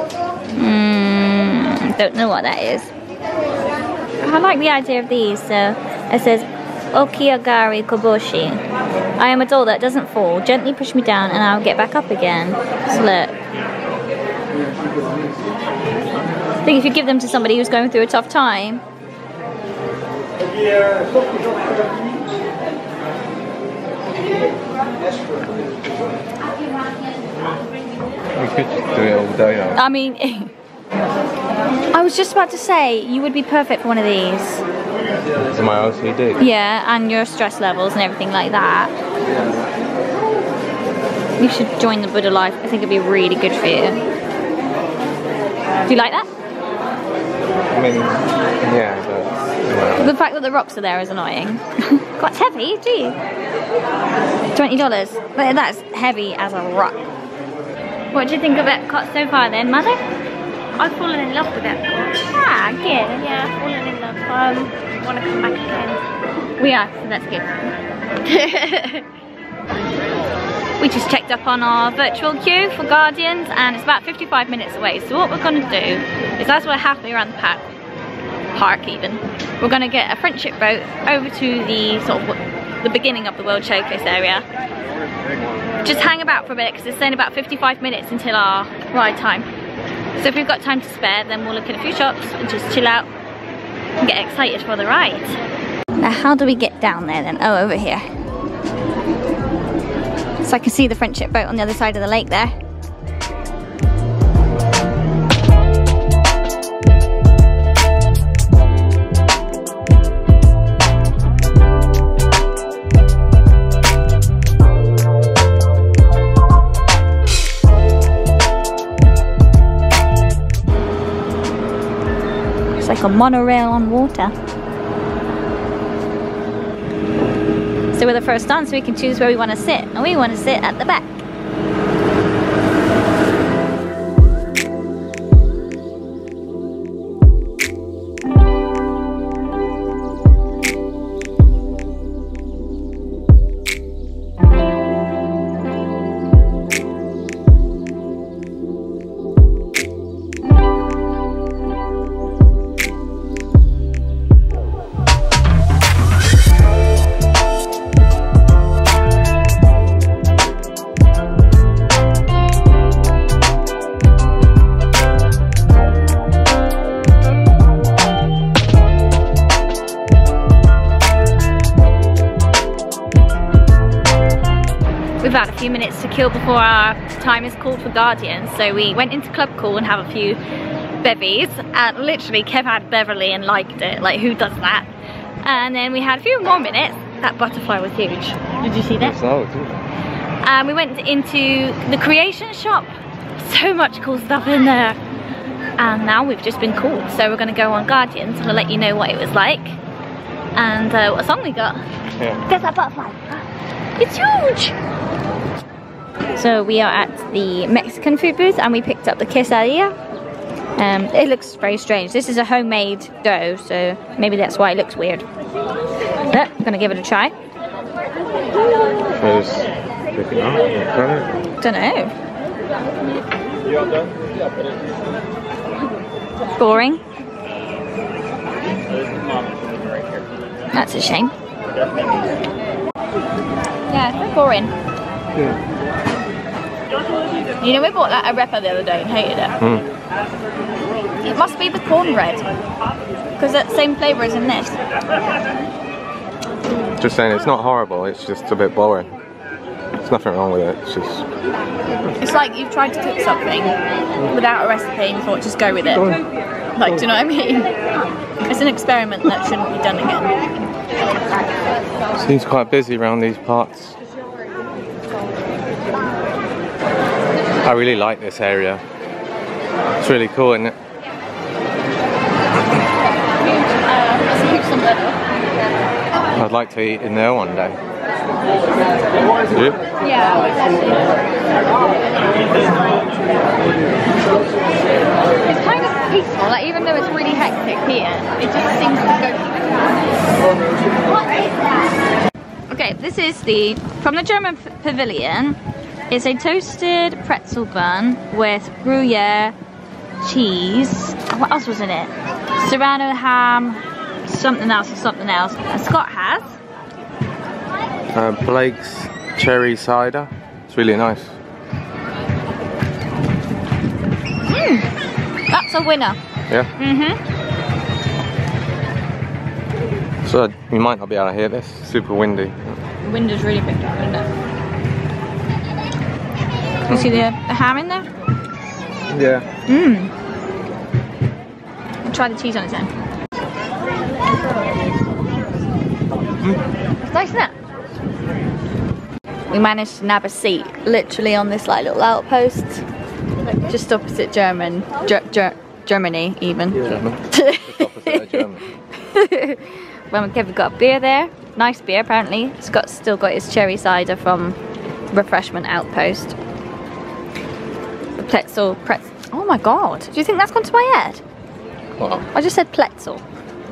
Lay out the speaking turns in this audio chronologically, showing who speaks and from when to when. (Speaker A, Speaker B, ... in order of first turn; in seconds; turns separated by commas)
Speaker A: 0.6-2.9, Speaker A: 4.2-8.6, Speaker A: 9.2-13.4, Speaker A: 16.6-18.8, Speaker B: 28.4-29.8, Speaker A: 29.8-30.5, Speaker A: 31.9-34.6, Speaker B: 35.5-36.4, Speaker A: 36.4-38.9, Speaker A: 41.4-44.0, Speaker A: 45.9-46.3, Speaker B: 47.7-50.1, Speaker A: 50.0-53.2, Speaker A: 54.5-57.1, Speaker A: 58.1-60.0, Speaker C: 60.8-66.0, Speaker A: 62.4-63.2, Speaker A: 66.6-67.7, Speaker C: 68.3-68.9, Speaker A: 68.5-69.0, Speaker A: 70.8-77.7, Speaker A: 78.5-84.5, Speaker A: 85.8-89.5, Speaker A: 90.2-93.1, Speaker A: 94.0-95.4, Speaker A: 96.0-98.0, Speaker A: 100.4-102.5, Speaker A: 122.7-124.3, Speaker A: 127.9-131.2, Speaker A: 175.2-180.4, Speaker A: 181.0-184.9, Speaker A: 185.4-189.1, Speaker B: 189.0-189.9, Speaker A: 190.4-195.0, Speaker A: 195.8-199.8, Speaker A: 200.6-201.8, Speaker B: 202.2-202.4, Speaker A: 202.5-203.4, Speaker A: 204.0-204.7, Speaker A: 206.3-209.9, Speaker A: 210.8-215.3, Speaker A: 216.3-217.3, Speaker B: 219.1-221.3, Speaker A: 221.6-222.1, Speaker A: 226.6-227.0, Speaker C: 229.2-230.2, Speaker A: 230.7-231.3, Speaker A: 233.9-234.7, Speaker A: 237.6-239.6, Speaker B: 239.6-239.9, Speaker A: 241.2-242.5, Speaker A: 243.4-244.8, Speaker B: 247.0-249.1, Speaker B: 249.9-251.3, Speaker A: 252.2-253.8, Speaker A: 254.3-256.2, Speaker A: 256.8-257.7, Speaker A: 258.5-260.4, Speaker B: 262.2-264.0, Speaker B: 267.6-268.8, Speaker B: 270.0-270.8, Speaker A: 273.5-275.1, Speaker B: 276.4-277.8, Speaker B: 279.4-279.8, Speaker A: 280.0-280.8, Speaker A: 285.5-289.3, Speaker A: 292.7-295.6, Speaker A: 296.1-299.6, Speaker A: 300.2-306.6, Speaker B: 308.1-311.4, Speaker A: 314.5-314.9, Speaker A: 315.5-316.2, Speaker A: 316.8-317.2, Speaker B: 320.2-322.8, Speaker A: 323.0-324.3, Speaker A: 326.9-328.1, Speaker B: 329.1-329.5, Speaker A: 329.7-330.1, Speaker A: 332.1-332.9, Speaker A: 337.0-337.5, Speaker A: 339.5-342.8, Speaker A: 343.7-354.6, Speaker B: 346.8-348.6, Speaker A: 355.1-356.4, Speaker A: 358.2-361.2, Speaker B: 362.0-362.3, Speaker A: 362.3-363.2